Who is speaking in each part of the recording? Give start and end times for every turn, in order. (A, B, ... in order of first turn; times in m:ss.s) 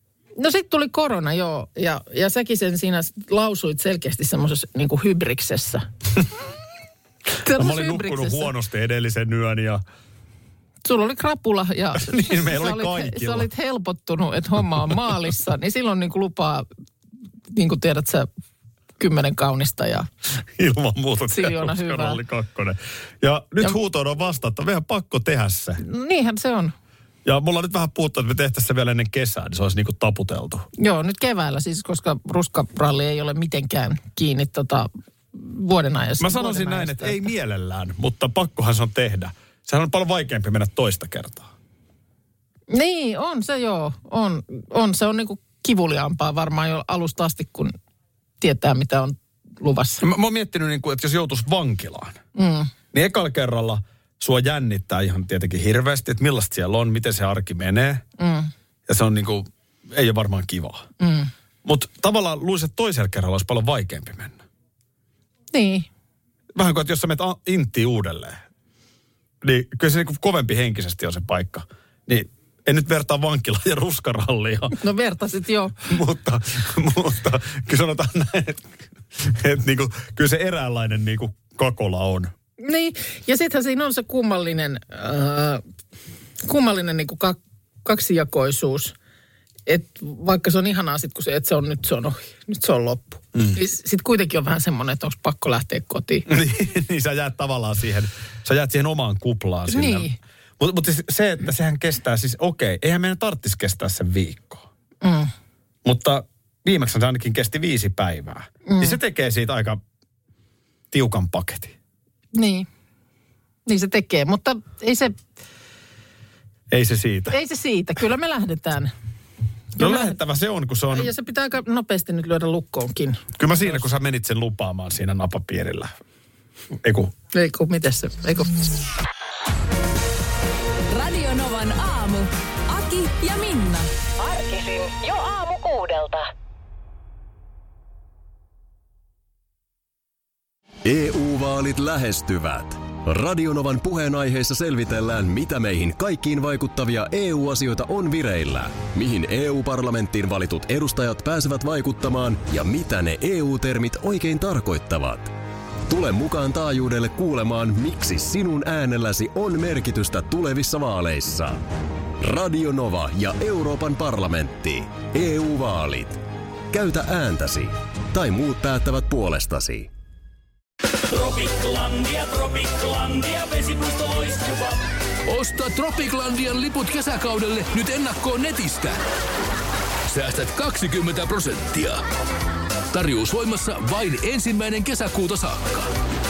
0:00.4-0:05.9 A
0:07.4-0:08.5 A
0:07.4-0:09.8 B
0:10.8-0:16.6 A
0:12.0-0:13.5 B
0:17.5-0:18.3 A
0:19.0-0:20.1 A
0:20.6-0:25.8 B
0:21.3-0:22.2 A
0:25.8-0:26.7 A
0:27.2-0:30.7 B
0:30.8-0:37.3 A
0:36.2-0:41.5 B
0:42.7-0:47.7 A
0:48.4-0:50.0 A
0:50.0-0:52.2 B
0:52.4-0:52.7 A
0:52.9-0:58.0 B
0:58.2-0:58.5 A
0:58.9-1:00.9 B
1:01.0-1:01.3 A
1:01.6-1:04.4 B
1:05.5-1:05.9 A
1:06.6-1:08.4 B
1:09.4-1:14.8 B
1:14.8-1:15.8 A
1:15.8-1:22.3 B
1:22.6-1:25.6 A
1:26.4-1:29.0 A
1:29.7-1:36.3 A
1:36.3-1:44.6 B
1:39.7-1:40.2 A
1:45.0-1:45.3 A
1:45.8-1:49.8 B
1:48.7-1:49.0 A
1:50.9-1:51.8 B
1:52.3-1:52.7 A
1:53.7-1:55.2 A
1:56.7-1:57.4 B
1:57.3-1:58.9 A
1:59.8-2:00.2 A
1:59.8-2:01.1 B
2:00.9-2:03.3 A
2:03.4-2:05.9 B
2:06.8-2:07.1 B
2:07.3-2:08.7 A
2:10.9-2:13.9 C
2:14.2-2:16.2 D
2:20.8-2:35.3 E
2:35.9-2:41.6 E
2:42.2-2:49.9 E
2:51.1-2:54.8 F
2:55.3-2:59.0 G
3:00.1-3:02.0 G
3:02.9-3:05.9 G